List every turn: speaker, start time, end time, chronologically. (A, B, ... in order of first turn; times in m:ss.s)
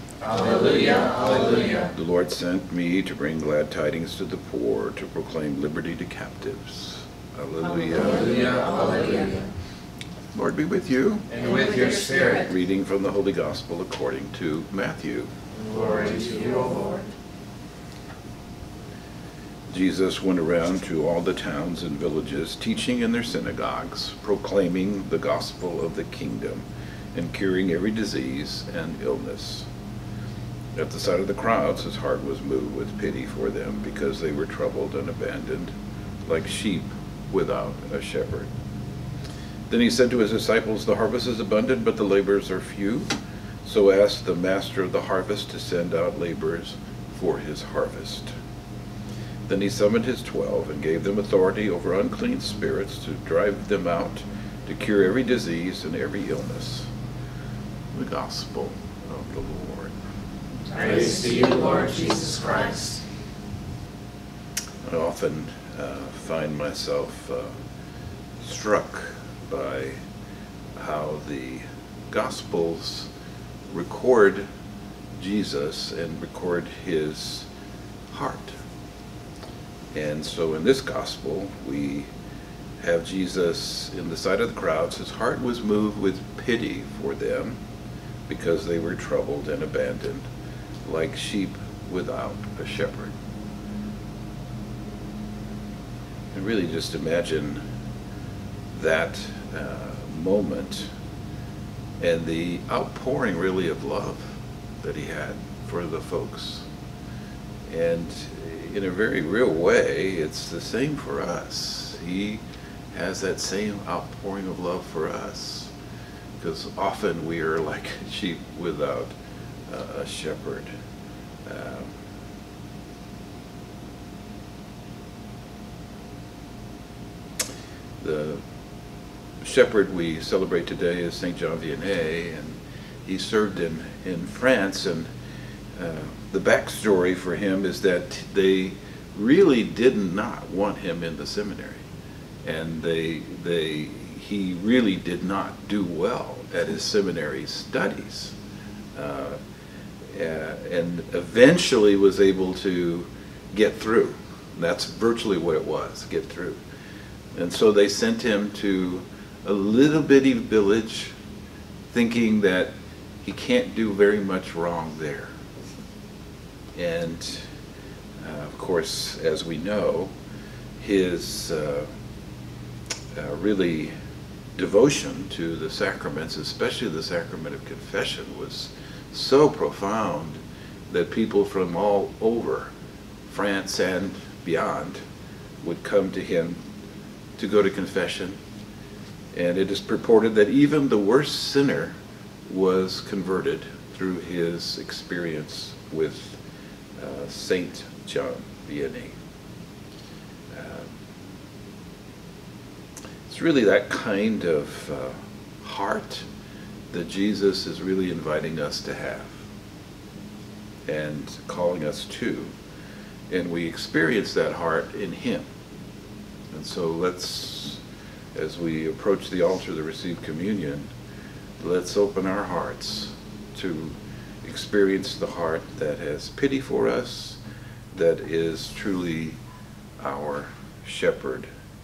0:00.4-0:01.7 A
0:01.4-0:09.3 B
0:08.5-0:09.4 A
0:10.3-0:11.6 B
0:11.4-0:12.4 A
0:12.2-0:15.3 B
0:15.7-0:17.0 A
0:19.7-0:29.7 B
0:30.8-0:35.8 B
0:36.3-0:38.5 B
0:39.7-0:43.1 B
0:43.6-0:48.3 B
0:49.5-0:56.9 B
0:57.9-0:59.9 B
1:00.7-1:03.0 A
1:04.8-1:07.6 B
1:08.4-1:10.0 B
1:10.8-1:13.1 B
1:13.7-1:14.4 B
1:15.2-1:17.5 B
1:18.1-1:18.5 B
1:19.9-1:22.1 B
1:22.8-1:27.6 B
1:28.3-1:30.3 B
1:30.8-1:33.2 B
1:36.3-1:37.6 B
1:38.7-1:40.9 B
1:42.0-1:46.7 B
1:47.7-1:55.7 B
1:56.4-1:59.2 B
1:59.7-2:00.7 B
2:01.4-2:02.0 B
2:08.0-2:08.4 B
2:09.4-2:15.1 B
2:15.8-2:21.8 B
2:22.4-2:28.4 B
2:28.9-2:29.4 B
2:30.1-2:36.6 B
2:37.3-2:41.2 B
2:41.9-2:42.7 B
2:43.2-2:45.3 B
2:46.8-2:47.5 B
2:48.2-2:50.1 B
2:50.8-2:51.9 B
2:53.1-2:53.9 B
2:54.6-3:02.7 B
3:03.3-3:05.0 B
3:05.6-3:06.6 B
3:07.4-3:08.4 B
3:09.3-3:16.4 B
3:17.0-3:19.2 B
3:20.5-3:21.0 B
3:23.3-3:26.3 B
3:26.9-3:29.4 B
3:30.9-3:32.5 B
3:33.3-3:35.5 B
3:36.5-3:37.8 B
3:38.4-3:40.9 B
3:41.6-3:47.4 B
3:47.9-3:49.4 B
3:50.0-3:51.5 B